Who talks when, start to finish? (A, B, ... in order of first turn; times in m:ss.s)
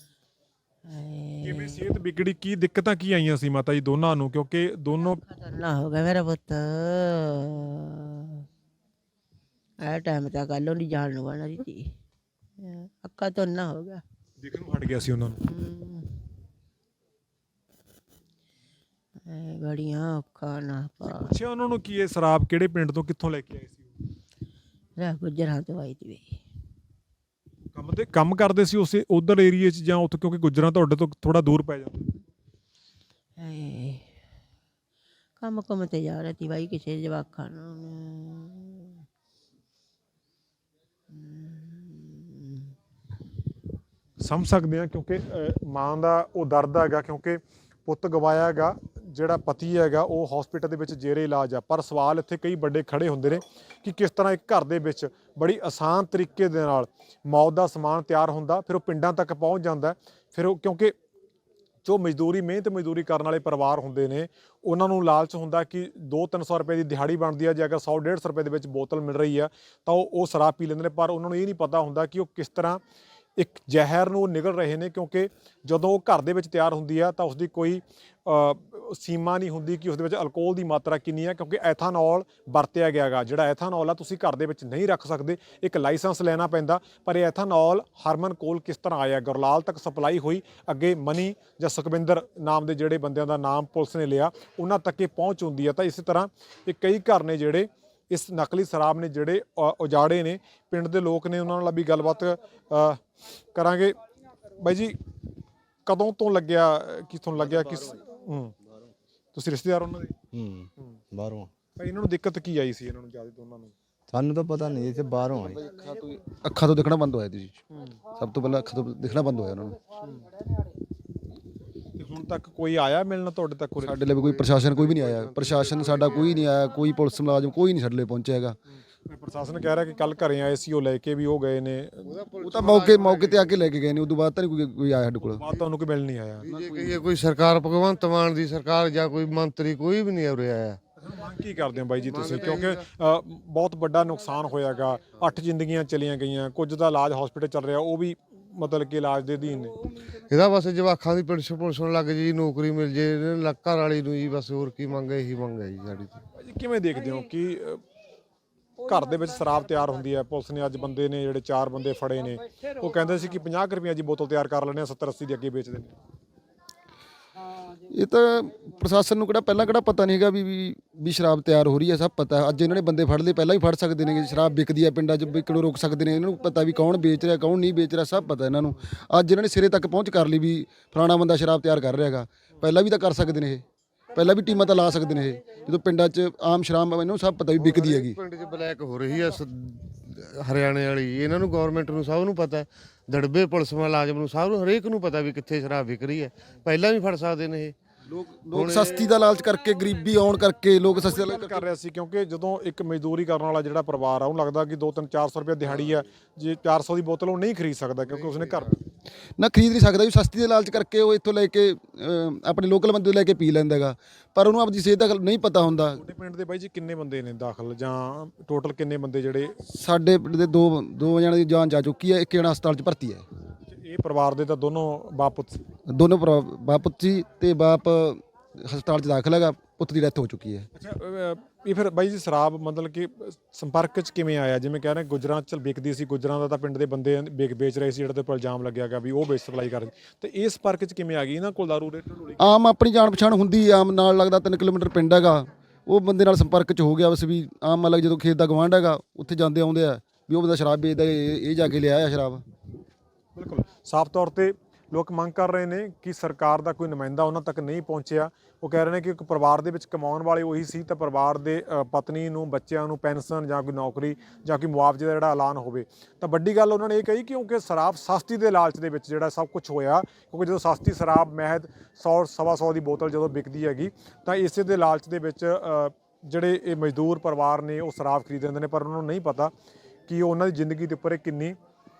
0:00.8-0:01.8 A
0:01.4-0:05.2 B
0:05.2-0:08.4 A
0:09.8-0:11.9 A
0:12.6-0:14.0 A
0:14.4-0:15.4 B
0:15.4-0:16.2 A
0:19.2-0:21.3 A
0:21.0-0:23.9 B
0:25.0-0:26.4 A
0:27.7-0:32.1 B
0:33.4-0:34.1 A
0:35.4-0:39.0 A
0:41.1-0:42.7 A
0:44.2-1:00.9 B
1:01.8-1:12.8 B
1:13.4-1:43.0 B
1:43.5-1:44.0 B
1:44.6-1:45.0 B
1:45.8-1:48.5 B
1:49.3-1:50.2 B
1:50.3-1:51.5 C
1:51.8-1:53.7 B
1:54.1-1:55.6 C
1:55.5-1:57.6 D
1:58.1-1:59.8 D
2:02.0-2:04.0 B
2:03.8-2:08.6 D
2:04.1-2:06.4 E
2:08.7-2:12.1 B
2:12.0-2:13.6 E
2:12.4-2:15.4 D
2:15.4-2:16.5 B
2:16.4-2:20.8 E
2:16.5-2:16.9 D
2:21.0-2:29.8 B
2:22.1-2:22.8 E
2:30.1-2:36.2 E
2:36.4-2:37.8 B
2:38.8-2:45.9 B
2:47.8-3:03.6 D
3:04.1-3:08.2 D
3:07.6-3:17.8 E
3:18.1-3:21.6 D
3:18.5-3:19.1 E
3:20.9-3:28.8 B
3:25.7-3:26.0 E
3:28.1-3:28.8 E
3:29.4-3:36.0 D
3:35.9-3:39.6 B
3:39.6-3:43.2 D
3:43.7-3:45.6 B
3:45.9-3:50.7 D
3:50.7-4:02.4 B
4:02.4-4:12.4 D
4:13.4-4:39.5 B
4:40.1-4:41.6 B